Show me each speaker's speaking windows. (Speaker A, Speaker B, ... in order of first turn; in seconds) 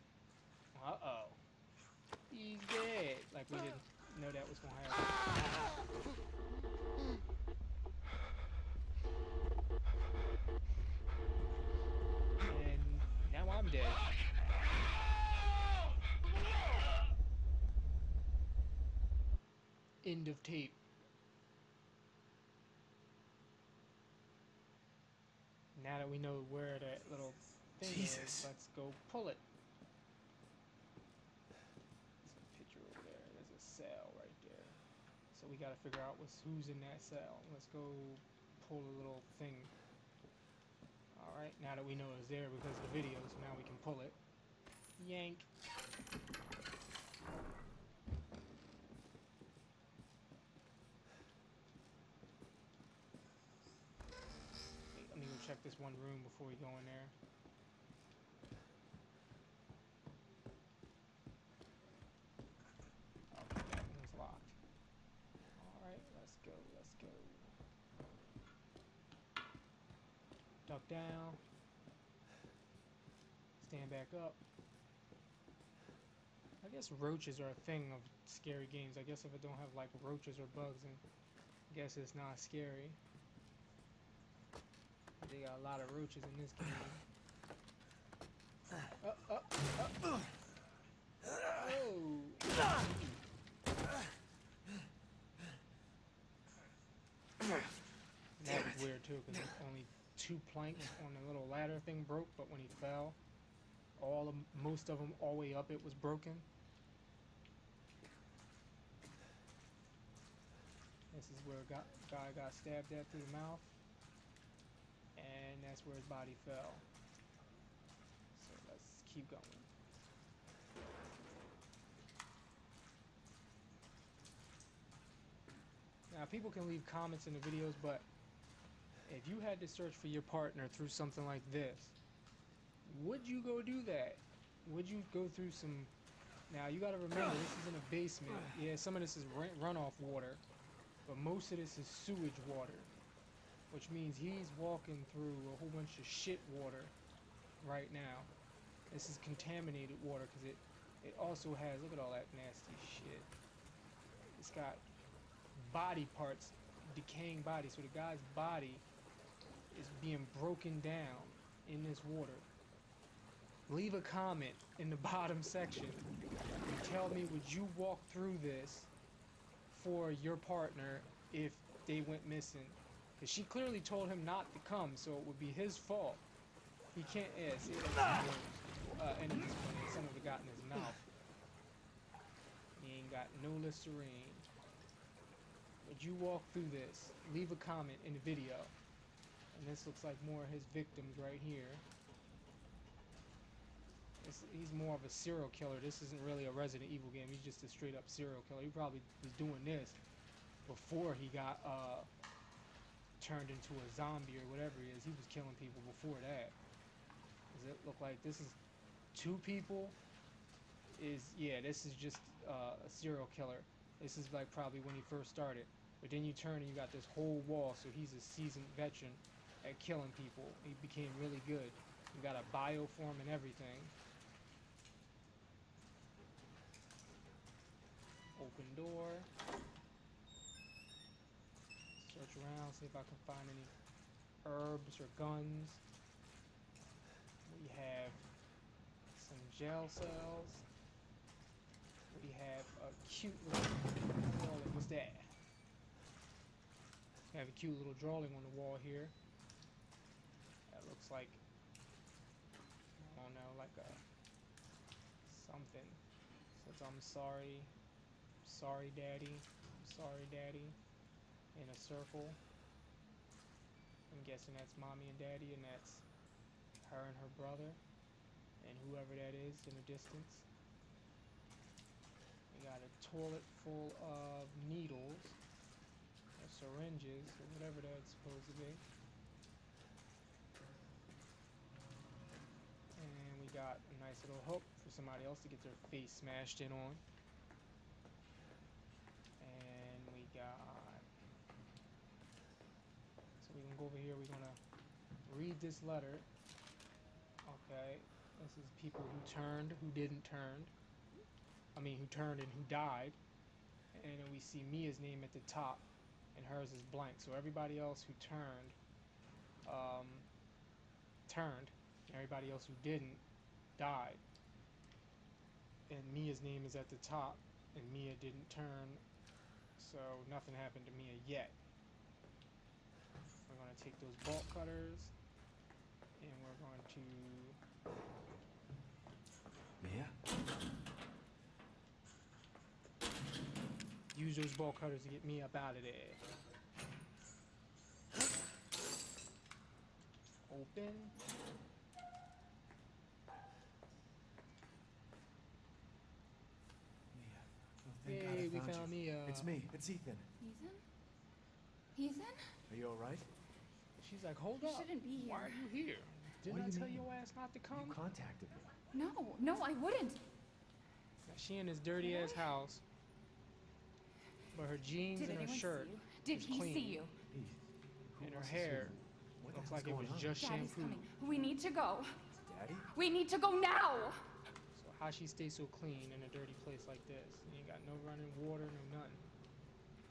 Speaker A: 0.7-1.4, 2.3-5.7, 12.4-14.0, 20.0-20.8, 25.7-29.4, 32.2-34.8, 35.3-39.7, 41.1-44.2, 45.0-45.5, 54.9-57.1, 63.3-64.5, 65.5-67.5, 70.7-71.4, 73.6-74.4, 76.6-81.0, 81.7-83.0, 85.2-87.0, 89.0-90.2, 91.5-92.5, 98.4-103.2, 104.0-106.5, 111.1-113.7, 115.2-116.8, 118.3-119.7, 126.1-128.1, 129.1-131.9, 132.8-135.9, 136.5-140.4, 141.1-142.9, 143.7-146.9, 147.6-148.3, 148.9-153.3, 154.3-154.8, 155.6-158.8, 159.7-162.5, 163.7-166.1, 166.6-168.9, 169.7-176.2, 176.9-181.0, 182.8-184.5, 185.8-188.7, 189.5-191.8, 194.2-200.0, 200.6-202.1, 203.2-206.6, 207.5-208.6, 209.1-210.0, 210.9-223.9, 228.3-229.3, 232.0-233.7, 234.4-235.8, 237.4-238.2, 239.1-240.6, 242.1-245.3, 247.3-249.1, 250.7-251.4, 253.0-254.0, 255.2-256.0, 256.5-257.7, 258.4-260.8, 261.5-262.4, 264.1-266.0, 266.8-267.8, 268.6-270.4, 272.5-275.4, 276.4-278.8, 282.9-287.0, 289.4-291.0, 293.4-294.6, 295.2-296.2, 297.4-300.7, 301.7-303.2, 303.9-308.8, 309.6-310.3, 311.3-313.2, 313.8-314.2, 315.9-319.0, 319.8-321.6, 323.5-325.1, 326.2-327.6, 334.1-336.2, 340.5-341.1, 348.0-349.6, 354.0-358.0, 361.3-362.8, 364.5-367.1, 368.2-368.9, 369.5-371.0, 374.7-379.2
Speaker B: 27.8-28.5, 329.8-330.1, 347.1-350.3, 352.7-353.3, 356.4-357.1, 357.7-358.7, 367.3-370.4, 372.4-372.9
Speaker C: 350.4-350.8, 351.9-352.5, 354.6-355.6, 358.9-360.2, 362.0-362.5, 365.1-367.1, 370.4-372.1, 372.9-374.2